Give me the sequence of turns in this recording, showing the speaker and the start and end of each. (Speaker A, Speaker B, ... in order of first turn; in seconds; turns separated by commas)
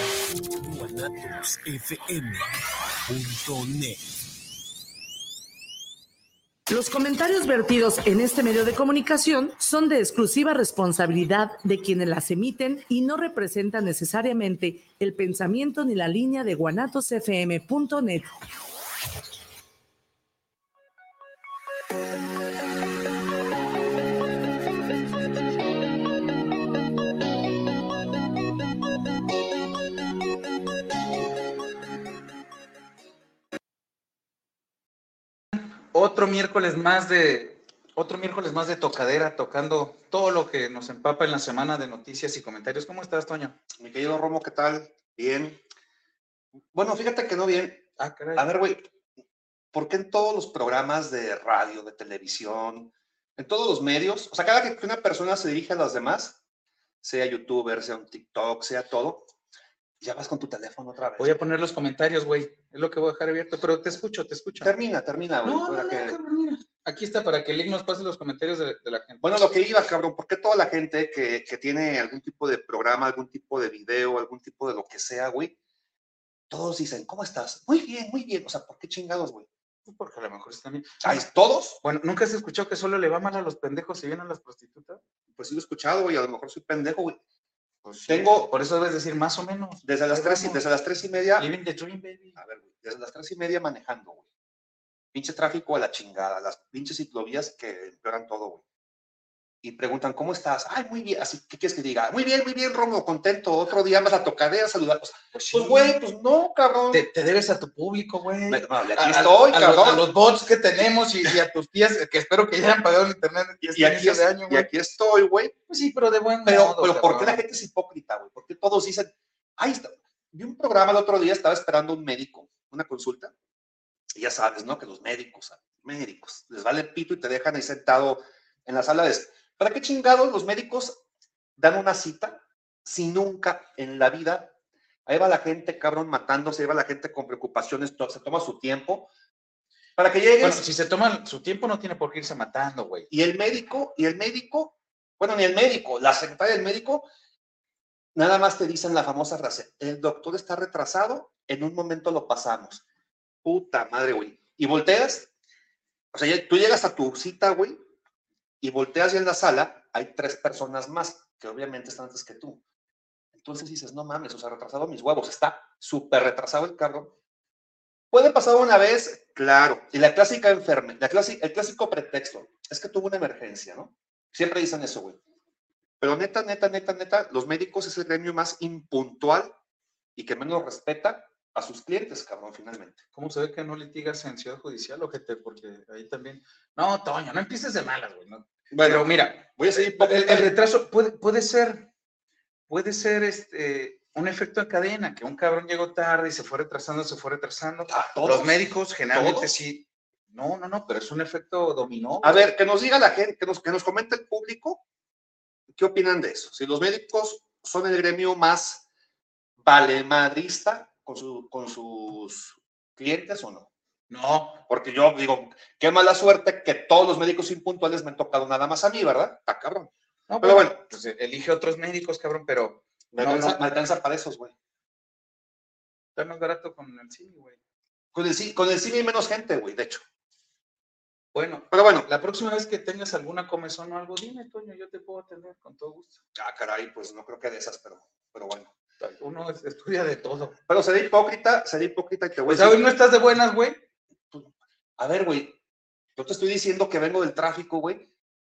Speaker A: 0.6-2.5, Speaker A: 3.0-4.0, Speaker B: 6.7-18.3, Speaker C: 35.6-43.6, Speaker D: 43.8-45.6, Speaker D: 46.7-48.8, Speaker C: 48.0-48.5, Speaker D: 49.7-56.4, Speaker D: 57.0-59.3, Speaker D: 60.0-61.4, Speaker C: 61.2-64.7, Speaker D: 64.6-66.2, Speaker C: 65.4-69.3, Speaker D: 69.2-75.5, Speaker D: 76.5-79.5, Speaker C: 79.8-81.2, Speaker D: 81.0-81.8, Speaker C: 81.8-85.0, Speaker D: 85.3-87.2, Speaker C: 87.8-90.6, Speaker D: 88.1-88.5, Speaker D: 89.8-91.5, Speaker C: 91.4-92.4, Speaker D: 92.4-94.2, Speaker D: 95.1-98.6, Speaker D: 99.6-107.0, Speaker C: 105.3-106.0, Speaker C: 106.9-114.7, Speaker D: 108.5-110.0, Speaker D: 113.6-115.5, Speaker C: 115.7-117.4, Speaker D: 116.4-123.3, Speaker D: 124.1-131.0, Speaker D: 131.6-134.5, Speaker D: 135.1-139.1, Speaker D: 140.0-140.6, Speaker C: 140.4-143.1, Speaker D: 143.1-147.1, Speaker D: 148.1-152.8, Speaker D: 153.4-155.3, Speaker D: 156.1-157.8, Speaker D: 158.6-162.6, Speaker D: 163.3-167.1, Speaker D: 168.1-175.2, Speaker D: 176.0-179.5, Speaker D: 180.2-183.0, Speaker C: 183.1-191.9, Speaker D: 188.7-190.5, Speaker C: 192.7-202.5, Speaker D: 197.9-199.5, Speaker D: 202.2-204.8, Speaker D: 205.7-208.8, Speaker D: 209.6-213.7, Speaker C: 214.1-214.6, Speaker D: 214.7-220.8, Speaker C: 220.3-223.6, Speaker D: 223.1-224.5, Speaker C: 226.2-227.6, Speaker D: 228.1-230.0, Speaker C: 231.3-236.2, Speaker D: 231.7-232.1, Speaker D: 236.3-238.7, Speaker C: 239.0-240.6, Speaker D: 240.7-242.8, Speaker C: 242.5-243.8, Speaker D: 244.3-245.6, Speaker D: 246.2-248.1